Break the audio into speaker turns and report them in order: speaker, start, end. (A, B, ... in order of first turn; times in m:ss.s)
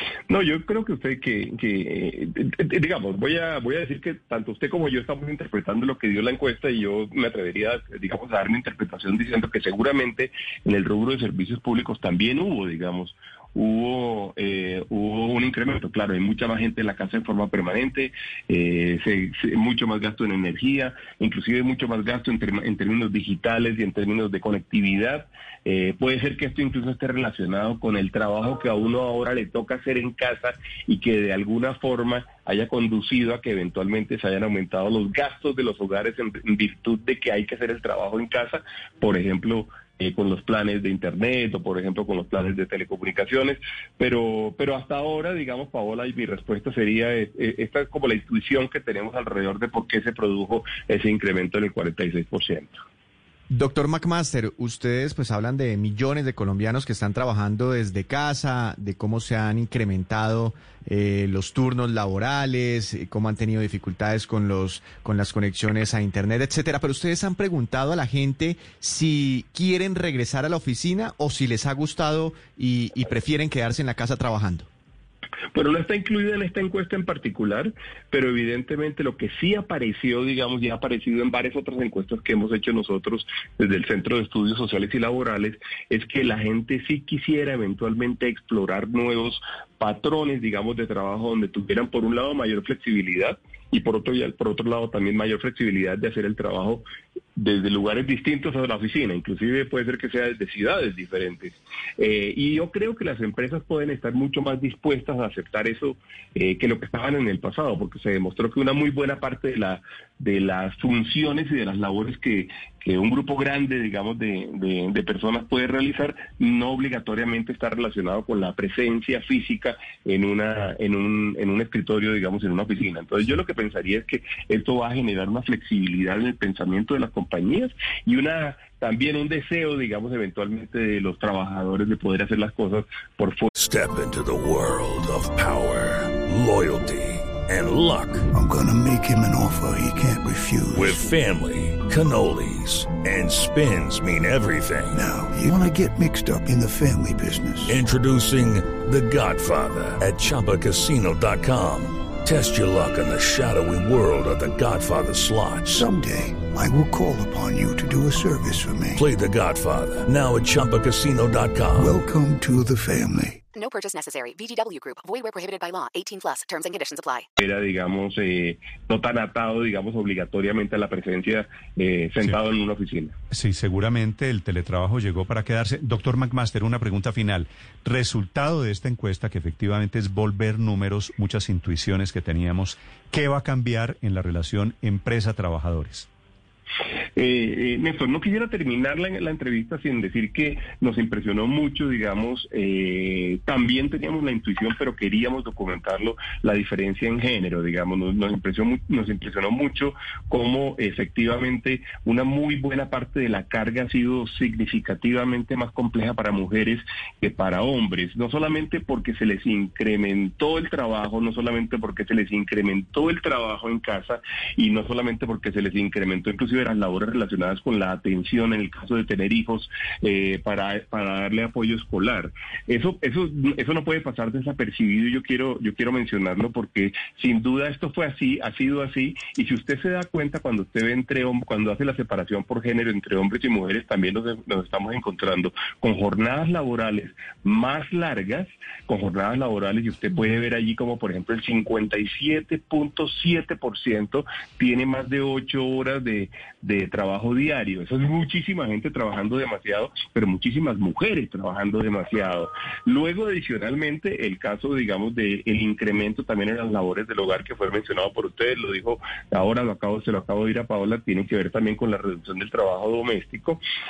0:00.3-0:52.8 A
0:53.5-1:14.7 B
1:15.5-1:36.8 A
1:37.4-2:13.5 A
2:13.5-2:18.3 C
2:18.3-2:21.0 D
2:20.7-2:25.0 C
2:24.9-2:27.8 D
2:27.6-2:35.9 C
2:35.7-2:39.0 D
2:38.9-2:42.0 C
2:41.8-2:43.4 D
2:43.5-2:47.3 E
2:47.4-2:53.1 A
2:53.3-3:06.1 F
3:07.2-4:23.6 A